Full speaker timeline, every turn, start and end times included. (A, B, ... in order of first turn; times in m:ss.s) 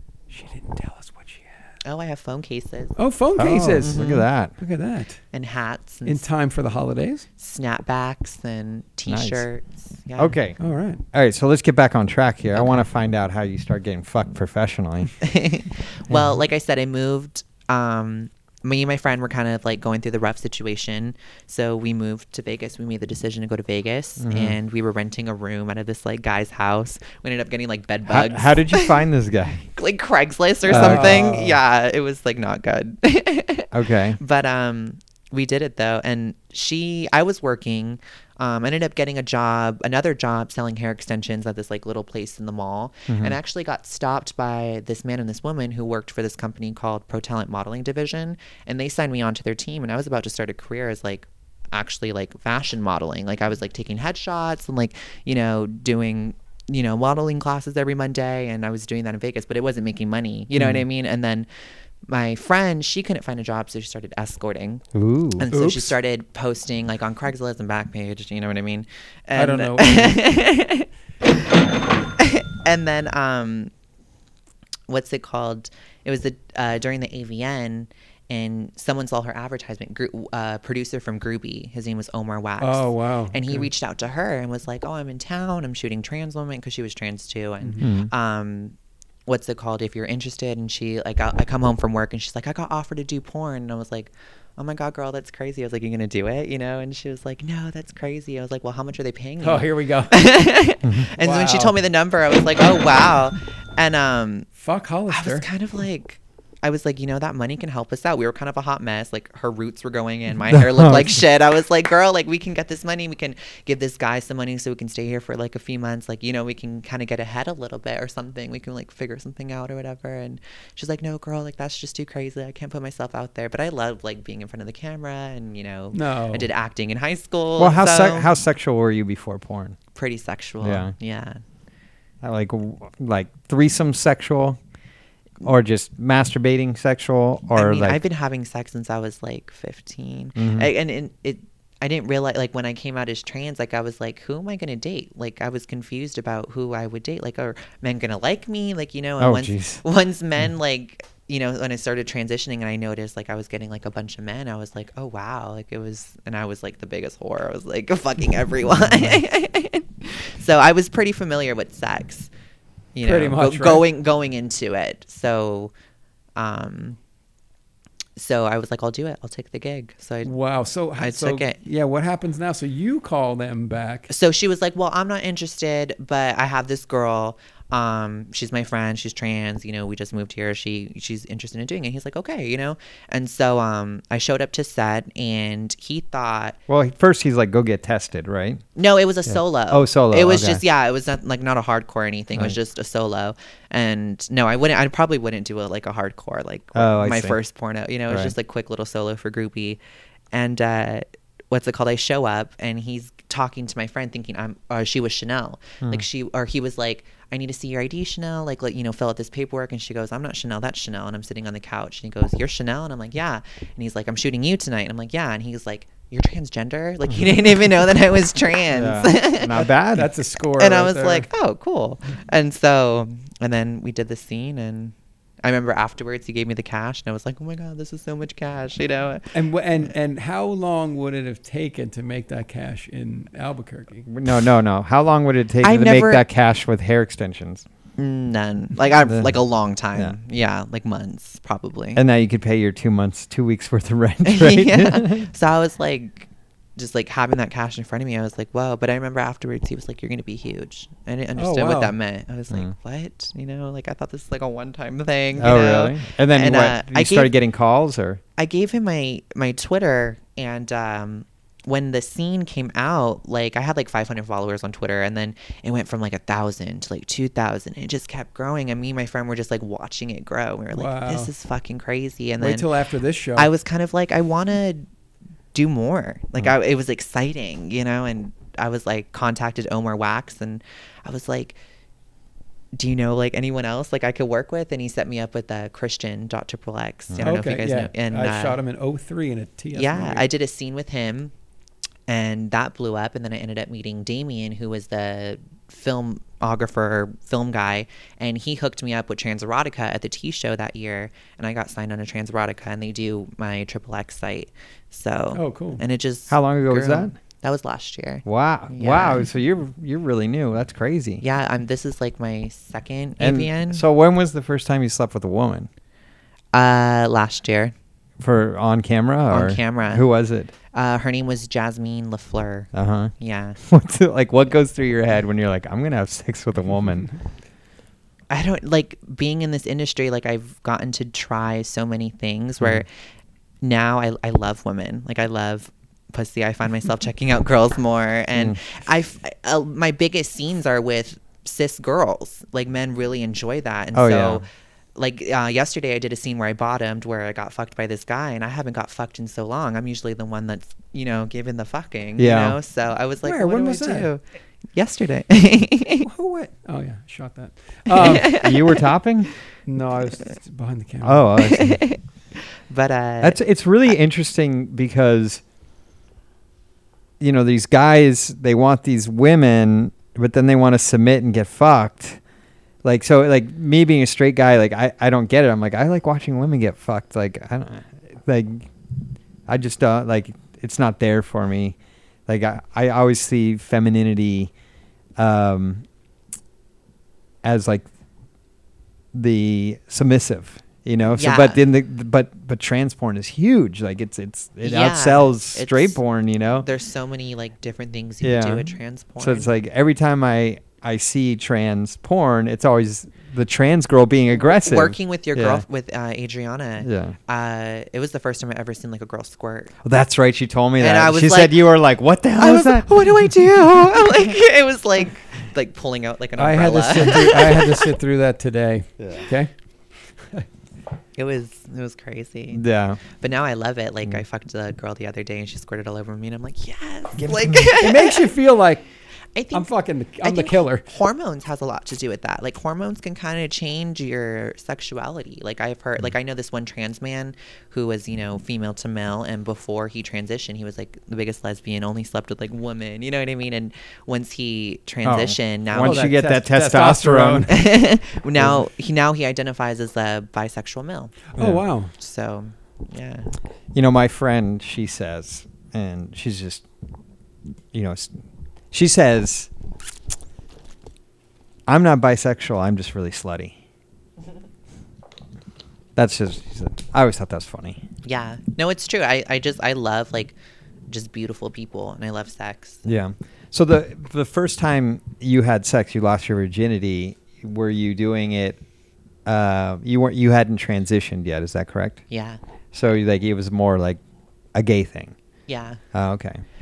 0:00.3-0:01.6 A
0:01.8-0:03.0 B
0:03.0-0:05.2 A
0:03.4-0:04.5 C
0:03.8-0:04.2 B
0:05.3-0:06.2 B
0:06.0-0:07.2 A
0:07.4-0:10.4 B
0:09.1-0:09.5 C
0:10.2-0:10.6 C
0:10.6-0:11.0 A
0:11.1-0:15.1 C
0:15.2-0:29.0 B
0:24.2-0:24.6 C
0:28.0-0:29.7 C
0:29.7-1:01.5 B
0:30.7-0:31.6 A
0:30.7-0:31.4 C
0:33.7-0:34.2 C
0:43.1-0:43.3 C
1:00.5-1:00.8 C
1:02.1-1:04.8 B
1:04.9-1:05.4 C
1:05.4-1:10.9 B
1:05.5-1:06.0 A
1:09.3-1:10.3 A
1:12.2-1:13.7 B
1:14.9-1:28.7 B
1:22.6-1:23.7 A
1:27.8-1:28.1 C
1:29.3-1:44.5 B
1:39.4-1:40.2 A
1:41.2-1:41.8 A
1:44.6-1:45.5 A
1:45.1-2:08.3 B
1:50.5-1:51.2 C
2:05.9-2:06.5 A
2:07.6-2:09.8 C
2:09.9-2:11.4 B
2:10.6-2:10.9 C
2:12.2-2:14.6 C
2:15.4-2:18.0 C
2:17.5-2:42.3 B
2:20.4-2:20.7 C
2:29.2-2:29.8 C
2:42.9-2:45.7 B
2:43.0-2:43.9 A
2:46.4-2:47.0 B
2:48.2-2:50.3 B
2:50.2-2:54.1 A
2:51.0-2:51.6 B
2:54.1-3:06.6 B
3:06.7-3:08.6 C
3:08.8-3:19.8 B
3:09.3-3:10.6 C
3:16.7-3:17.4 C
3:18.1-3:18.3 C
3:20.3-3:39.6 B
3:38.7-3:40.1 C
3:39.5-3:41.3 A
3:40.6-3:49.3 B
3:49.3-3:54.1 A
3:54.1-3:57.6 C
3:55.6-3:56.2 B
3:58.0-4:02.0 B
3:59.0-3:59.4 C
4:01.9-4:05.3 C
4:04.2-4:17.3 B
4:11.4-4:11.9 A
4:15.4-4:18.2 C
4:18.4-4:32.7 B
4:30.7-4:31.3 A
4:32.4-4:33.5 A
4:33.4-4:34.9 B
4:35.5-4:41.6 B
4:42.7-4:48.6 B
4:47.2-4:50.2 A
4:49.7-4:51.3 B
4:52.1-5:09.2 B
5:05.3-5:05.8 A
5:06.3-5:07.1 C
5:08.2-5:11.2 C
5:11.2-5:13.8 B
5:13.2-5:15.7 C
5:16.5-5:17.7 B
5:18.2-5:20.5 C
5:19.3-5:20.0 B
5:20.7-5:23.6 B
5:22.7-5:27.1 C
5:28.3-5:32.9 B
5:33.6-5:44.4 B
5:43.9-5:44.4 C
5:45.0-5:54.2 B
5:52.2-5:52.6 C
5:53.2-5:54.1 A
5:54.7-5:56.1 B
5:56.0-5:58.4 A
5:57.9-5:58.8 B
5:58.0-5:59.3 C
5:59.6-6:01.4 A
6:01.0-6:01.8 C
6:01.4-6:03.4 B
6:03.2-6:05.4 C
6:07.2-6:12.2 C
6:12.8-6:18.7 C
6:19.5-6:24.5 C
6:25.2-6:25.8 C
6:27.4-6:27.8 C
6:29.1-6:36.7 C
6:31.1-6:31.6 B
6:34.6-6:36.0 B
6:36.6-6:39.5 B
6:38.2-6:45.6 C
6:44.4-6:49.7 B
6:46.8-6:47.2 C
6:49.8-6:52.9 C
6:50.8-6:51.7 B
6:52.4-6:57.9 B
6:56.4-6:59.5 A
6:59.0-6:59.2 C
7:01.2-7:08.2 B
7:02.5-7:03.0 C
7:07.2-7:07.8 C
7:07.8-7:08.8 A
7:09.3-7:09.7 B
7:09.5-7:10.8 A
7:10.2-7:26.1 B
7:25.0-7:27.5 C
7:25.8-7:27.6 A
7:27.5-7:31.1 B
7:31.4-7:31.9 A
7:31.4-7:31.6 C
7:32.0-7:33.3 B
7:33.7-7:36.6 C
7:37.7-7:38.1 C
7:38.7-7:39.5 C
7:41.7-7:43.6 C
7:46.0-7:47.8 C
7:48.0-7:50.3 B
7:50.9-7:52.8 B
7:52.8-7:58.6 C
7:59.2-8:02.0 C
8:02.1-8:02.4 B
8:02.7-8:04.0 C
8:04.5-8:05.1 C
8:05.5-8:05.8 B
8:05.9-8:06.4 C